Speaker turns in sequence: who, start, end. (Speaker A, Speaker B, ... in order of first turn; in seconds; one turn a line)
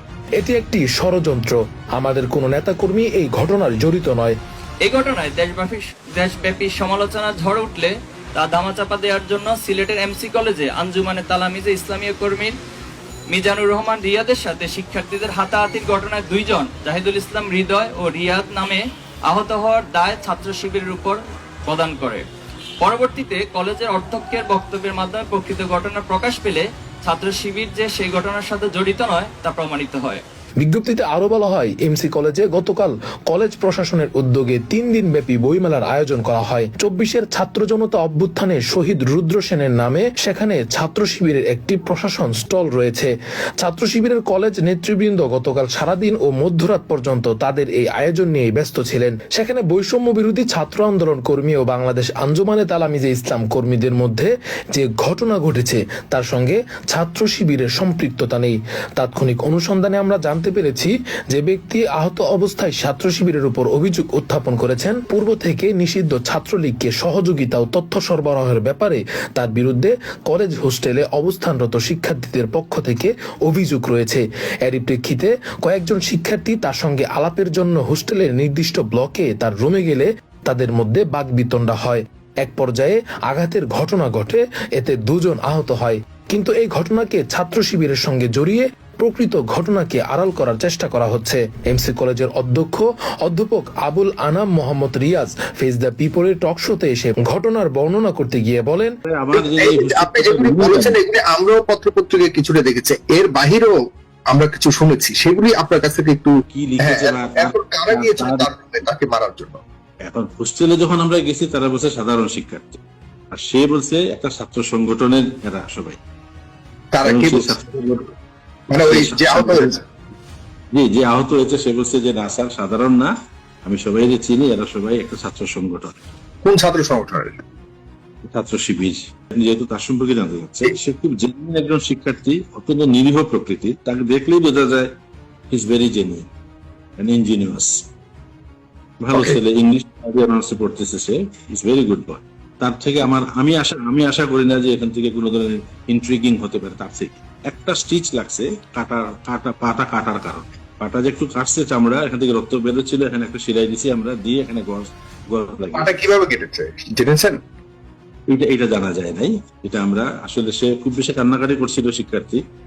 Speaker A: 0.4-4.4
Speaker B: 4.8-12.5
Speaker B: 13.3-22.2
Speaker B: 22.8-30.2
Speaker A: 30.6-98.9
Speaker C: 99.1-101.0
Speaker D: 99.3-103.7
Speaker D: 104.3-109.6
Speaker C: 106.5-108.5
Speaker C: 110.0-112.8
Speaker C: 113.3-116.0
Speaker D: 116.9-117.6
Speaker C: 117.0-118.0
Speaker D: 118.7-119.8
Speaker C: 118.8-119.7
Speaker C: 120.7-123.1
Speaker C: 123.6-125.9
Speaker D: 126.4-127.4
Speaker C: 128.2-134.9
Speaker C: 135.5-136.3
Speaker C: 137.0-137.8
Speaker C: 139.0-156.0
Speaker D: 155.7-157.4
Speaker C: 158.3-162.4